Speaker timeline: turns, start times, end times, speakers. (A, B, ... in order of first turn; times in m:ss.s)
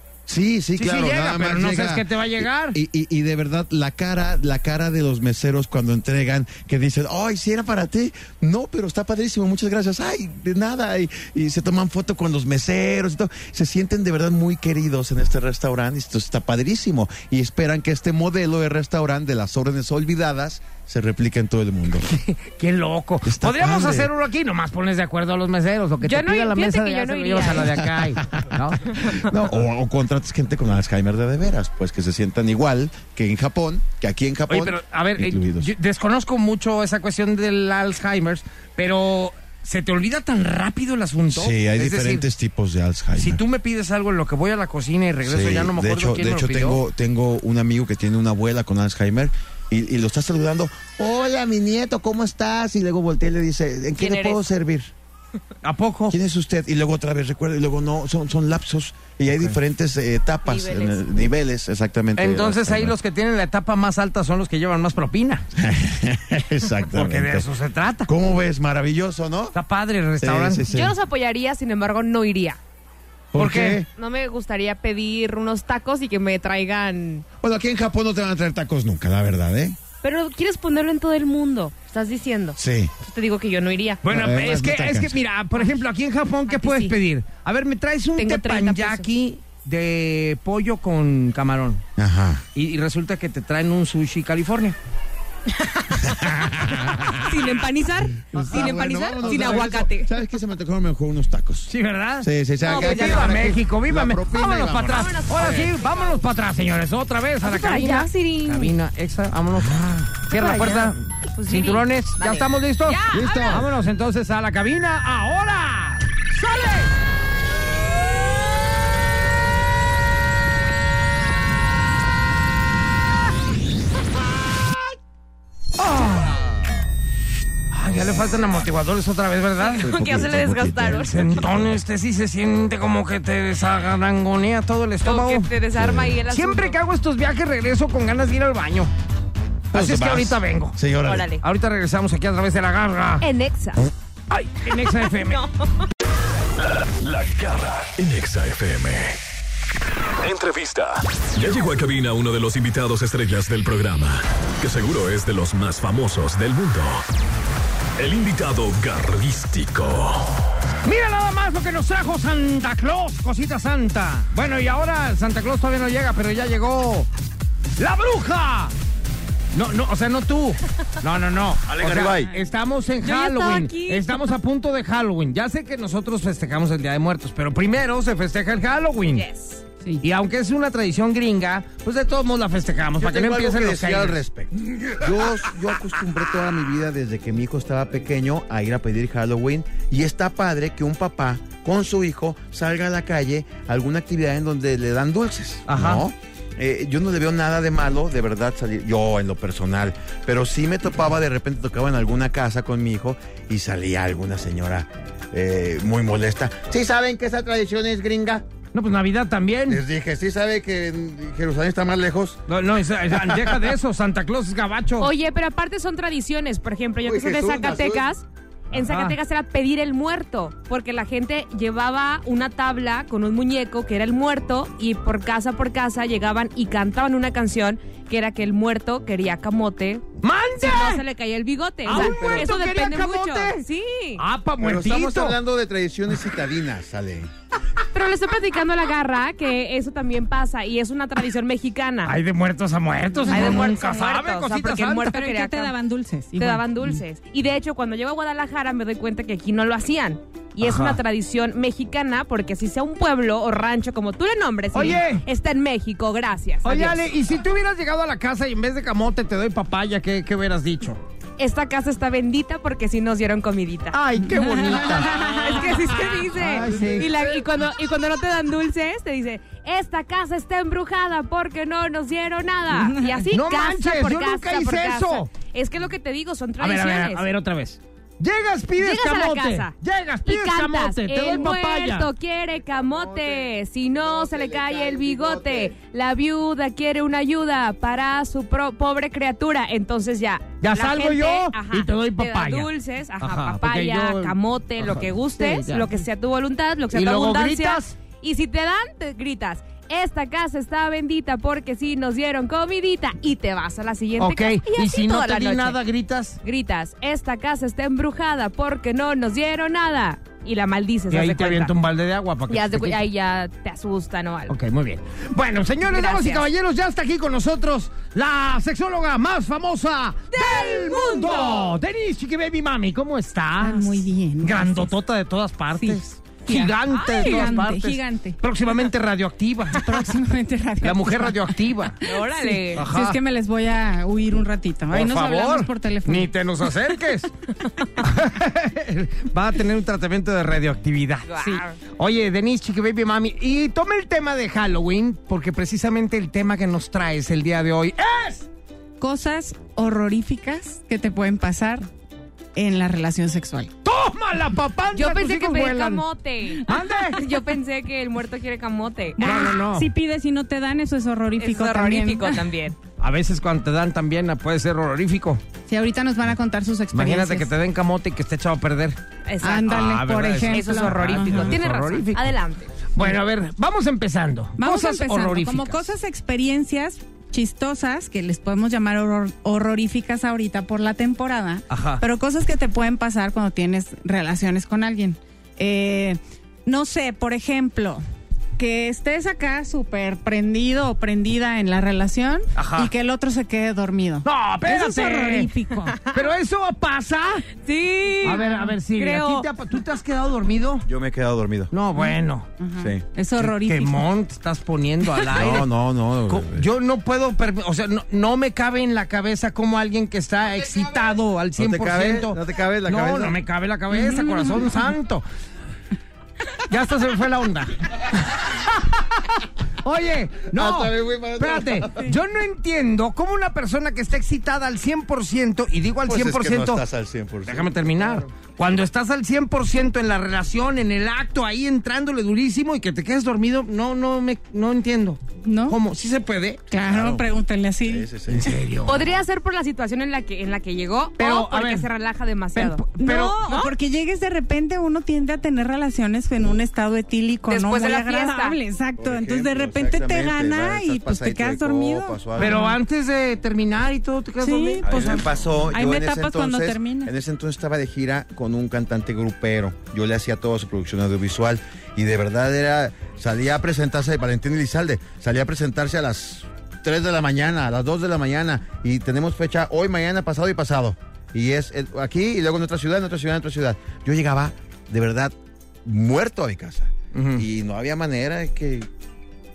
0:00.3-0:22.1 A
0:00.8-0:02.8 B
0:22.1-0:29.2 B
0:23.2-0:24.1 A
0:26.0-0:27.8 C
0:28.0-0:35.7 A
0:34.5-0:42.3 B
0:41.3-0:43.4 A
0:43.2-0:46.8 B
0:45.2-0:54.9 A
0:54.0-0:54.4 C
0:55.6-0:56.2 B
0:56.1-1:03.0 A
1:00.5-1:01.0 C
1:02.2-1:05.5 B
1:05.6-1:07.5 A
1:06.9-1:08.1 B
1:08.1-1:09.6 A
1:09.5-1:10.7 B
1:10.2-1:11.0 A
1:10.7-1:12.6 C
1:13.3-1:13.9 A
1:13.4-1:13.8 B
1:13.9-1:17.3 C
1:17.4-1:19.8 A
1:20.0-1:24.0 C
1:22.6-1:22.9 A
1:24.0-1:31.8 B
1:24.1-1:25.2 A
1:26.5-1:27.0 C
1:28.2-1:29.1 C
1:32.0-1:32.4 A
1:32.5-1:34.8 B
1:35.5-1:36.1 C
1:36.1-1:37.2 A
1:37.1-1:40.1 C
1:38.3-1:45.1 A
1:38.3-1:39.6 B
1:41.7-1:56.9 B
1:42.6-1:43.5 C
1:44.6-1:46.3 C
1:47.4-1:48.8 C
1:50.3-1:53.7 C
1:53.1-1:53.6 A
2:05.8-2:06.4 B
2:07.7-2:09.9 B
2:09.6-2:11.4 C
2:09.8-2:11.8 A
2:11.1-2:15.5 B
2:15.0-2:16.8 C
2:15.8-2:16.2 A
2:16.3-2:18.9 B
2:19.7-2:20.8 B
2:19.7-2:21.3 A
2:21.0-2:21.4 C
2:21.4-2:23.3 B
2:23.2-2:23.9 C
2:24.3-2:25.4 B
2:24.8-2:25.8 C
2:26.6-2:29.2 D
2:30.2-2:37.0 D
2:38.0-2:40.4 D
2:40.8-2:47.1 B
2:47.8-2:48.7 B
2:49.5-2:59.3 B
2:51.7-2:52.3 A
2:53.0-2:54.4 C
2:59.1-2:59.7 C
3:00.0-3:04.2 B
3:03.0-3:28.4 A
3:15.7-3:16.0 B
3:28.7-3:29.8 B
3:29.7-3:32.4 A
3:32.5-3:35.1 B
3:33.1-3:33.7 A
3:35.0-3:50.1 C
3:37.0-3:38.1 A
3:38.7-3:39.2 B
3:50.2-3:51.0 B
3:50.6-3:54.2 C
3:51.8-3:53.6 B
3:51.9-3:52.5 A
3:54.2-3:55.4 B
3:54.6-3:57.3 A
3:57.9-4:02.2 C
4:02.0-4:05.2 B
4:03.3-4:03.7 E
4:03.3-4:05.7 C
4:05.1-4:07.0 E
4:06.4-4:17.0 C
4:10.6-4:11.0 B
4:14.7-4:15.2 B
4:16.6-4:21.0 B
4:21.4-4:24.0 C
4:23.9-4:27.1 B
4:24.2-4:25.4 E
4:25.0-4:37.3 C
4:33.3-4:35.3 B
4:36.6-4:42.1 B
4:38.8-5:05.8 C
4:42.8-4:45.7 A
4:50.6-4:55.9 B
4:56.9-4:58.0 B
5:04.2-5:06.4 B
5:06.4-5:11.7 C
5:11.1-5:13.0 B
5:12.5-5:14.6 C
5:14.5-5:30.1 B
5:15.9-5:16.5 C
5:20.3-5:21.7 C
5:23.6-5:24.9 E
5:25.7-5:28.4 E
5:26.9-5:27.5 C
5:29.8-5:31.6 E
5:30.8-5:32.0 B
5:32.0-5:32.9 C
5:32.2-5:36.3 E
5:32.7-5:33.2 B
5:34.9-5:37.3 B
5:38.0-5:48.5 B
5:41.3-5:41.8 C
5:49.0-5:51.8 E
5:52.6-5:53.7 E
5:53.8-5:56.0 B
5:55.0-5:59.3 C
5:56.6-5:57.2 B
5:59.2-5:59.9 B
5:59.2-6:02.4 E
6:01.4-6:02.8 C
6:03.0-6:05.4 B
6:05.7-6:07.5 E
6:06.9-6:09.0 B
6:09.3-6:09.8 C
6:09.4-6:11.6 E
6:09.7-6:12.3 B
6:10.5-6:12.9 C
6:12.9-6:15.9 B
6:14.6-6:28.0 E
6:21.7-6:22.0 B
6:28.6-6:36.0 E
6:32.6-6:32.9 B
6:34.2-6:35.5 B
6:36.1-6:37.5 B
6:37.6-6:39.5 C
6:38.2-6:40.9 B
6:38.3-6:38.8 E
6:40.8-6:41.7 A
6:41.7-6:42.5 B
6:42.0-6:44.0 E
6:42.8-6:43.0 A
6:43.4-6:45.7 B
6:45.3-6:46.7 A
6:46.3-6:55.2 B
6:51.6-6:53.4 A
6:53.9-6:54.7 E
6:56.7-6:58.7 B
6:59.8-7:06.8 B
7:00.5-7:02.1 A
7:06.1-7:08.2 A
7:07.5-7:16.6 B
7:15.4-7:15.8 E
7:16.7-7:18.1 E
7:16.8-7:17.3 A
7:17.8-7:18.6 A
7:18.3-7:19.0 B
7:18.8-7:23.7 C
7:21.2-7:21.9 B
7:22.5-7:23.4 B
7:23.0-7:32.8 E
7:27.5-7:28.6 C
7:29.0-7:32.6 A
7:32.4-7:35.3 B
7:34.4-7:35.2 E
7:34.8-7:58.9 A
7:35.7-7:37.1 E
7:57.1-7:57.4 B